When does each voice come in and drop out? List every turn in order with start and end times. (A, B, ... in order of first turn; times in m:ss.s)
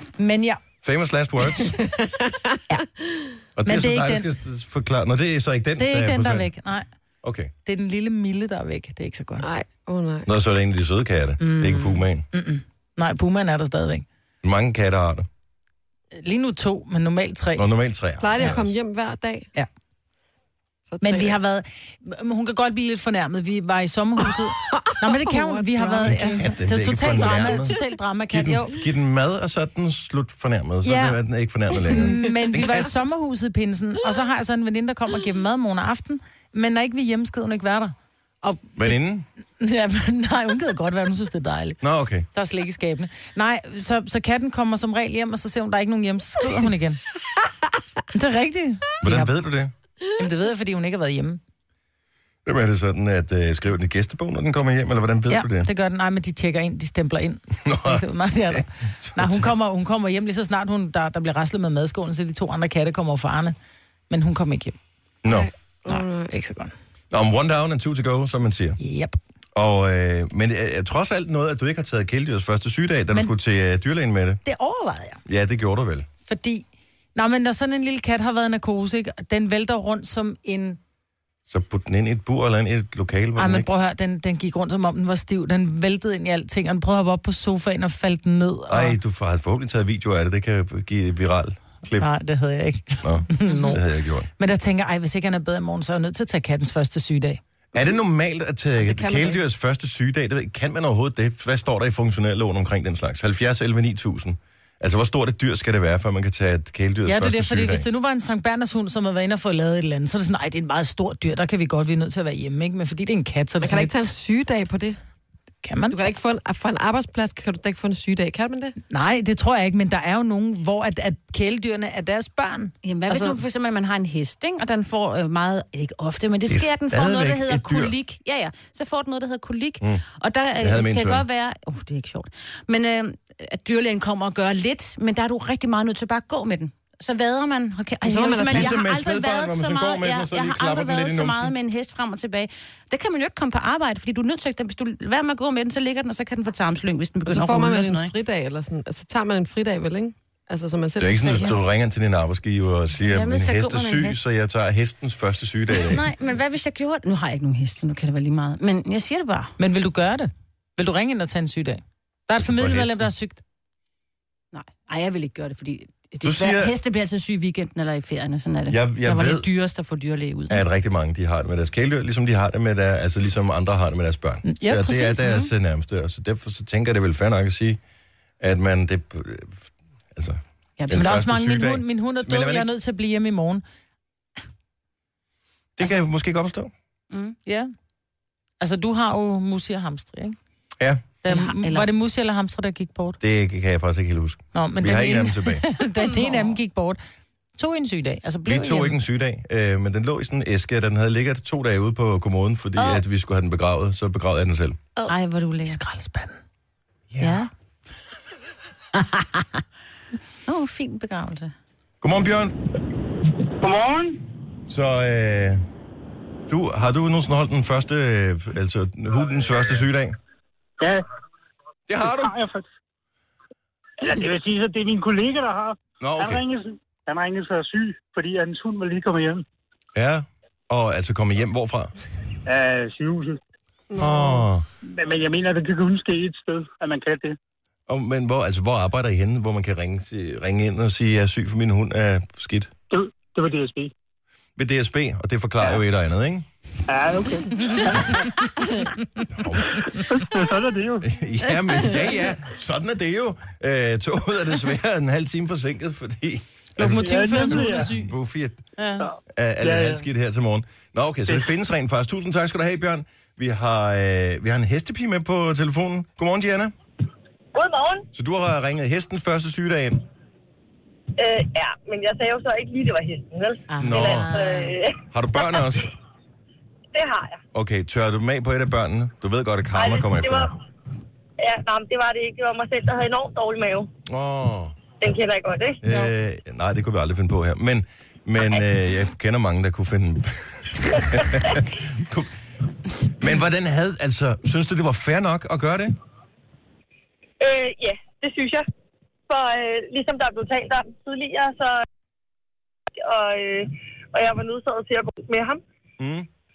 0:00.2-0:00.6 A
0:00.8-0:01.8 B
0:01.8-0:03.3 C
0:03.6-0:06.5 B
0:03.6-0:04.3 A
0:05.8-0:06.8 A
0:07.2-0:07.5 B
0:07.6-0:09.4 A
0:09.4-0:10.3 C
0:10.2-0:12.2 B
0:11.4-0:14.0 A
0:14.4-0:15.3 B
0:16.1-0:17.7 A
0:17.6-0:18.7 B
0:18.2-0:19.5 C
0:20.9-0:21.4 C
0:21.0-0:28.8 A
0:24.7-0:26.5 C
0:26.0-0:27.8 B
0:28.3-0:33.0 B
0:30.8-0:31.2 A
0:31.9-0:38.9 A
0:38.8-0:39.2 B
0:39.6-0:41.8 A
0:41.8-0:42.3 B
0:42.3-0:47.0 A
0:48.1-0:49.3 A
0:49.0-0:49.7 B
0:50.2-0:51.4 A
0:52.4-0:55.7 B
0:55.3-1:03.6 A
0:57.6-0:59.5 B
1:04.1-1:04.8 A
1:05.2-1:05.5 B
1:05.3-1:06.3 C
1:05.9-1:06.7 A
1:07.1-1:08.8 B
1:08.8-1:09.2 A
1:09.5-1:14.4 B
1:14.4-1:15.2 A
1:15.2-1:16.0 B
1:16.3-1:20.8 A
1:21.5-1:23.7 B
1:23.4-1:29.0 A
1:28.7-1:32.1 B
1:31.9-1:33.8 A
1:33.0-1:34.3 B
1:34.4-1:37.4 A
1:37.7-1:47.8 B
1:38.8-1:39.4 C
1:47.0-1:54.1 A
1:53.6-1:55.0 C
1:55.6-1:56.0 A
1:55.9-1:58.7 C
1:58.9-2:03.4 A
2:02.8-2:28.1 D
2:06.5-2:07.9 B
2:10.6-2:11.2 B
2:18.0-2:18.8 C
2:18.4-2:21.5 B
2:27.3-2:31.5 C
2:31.0-2:36.0 B
2:33.0-2:34.2 D
2:35.7-2:39.5 D
2:39.6-2:43.4 A
2:42.4-2:43.1 B
2:44.5-2:50.6 D
2:46.2-2:46.7 B
2:48.7-2:49.5 B
2:50.5-2:57.8 B
2:54.4-2:55.2 A
2:55.2-2:55.5 D
2:58.4-3:02.7 B
3:00.8-3:03.6 A
3:05.8-3:06.7 B
3:07.1-3:07.4 D
3:08.6-3:10.4 A
3:11.2-3:13.2 A
3:11.3-3:11.9 D
3:13.2-3:15.7 B
3:14.5-3:17.0 A
3:16.0-3:16.5 D
3:17.6-3:19.0 A
3:18.4-3:24.8 B
3:25.0-3:25.8 D
3:25.6-3:26.4 A
3:27.1-3:27.4 B
3:27.2-3:27.5 D
3:30.4-3:31.5 D
3:32.0-3:32.5 B
3:33.6-3:34.2 E
3:34.7-3:35.6 B
3:36.5-3:40.2 B
3:41.9-3:42.3 B
3:42.0-3:42.6 E
3:44.0-3:49.4 E
3:46.0-3:46.4 B
3:49.9-3:51.9 B
3:52.4-3:53.4 E
3:53.9-3:54.5 C
3:54.0-3:54.6 B
3:54.8-3:57.4 E
3:57.9-4:02.7 B
4:02.9-4:03.9 E
4:04.6-4:06.4 B
4:06.9-4:08.9 E
4:09.4-4:09.7 B
4:09.8-4:11.1 E
4:11.0-4:18.6 B
4:16.8-4:18.1 A
4:17.0-4:17.9 E
4:18.8-4:19.0 A
4:19.0-4:20.1 E
4:19.3-4:26.7 B
4:27.5-4:28.1 F
4:28.1-4:30.0 B
4:31.2-4:35.7 F
4:33.7-4:34.7 A
4:33.8-4:34.3 B
4:35.1-4:35.9 B
4:36.9-4:37.4 F
4:37.5-4:40.5 B
4:39.7-4:40.6 F
4:41.4-4:43.9 F
4:44.1-4:44.8 B
4:45.0-4:45.8 F
4:45.8-4:52.3 B
4:51.0-4:51.6 F
4:53.2-4:55.9 B
4:57.4-4:58.7 F
4:59.3-5:01.8 F
5:03.0-5:05.6 F
5:06.0-5:06.3 B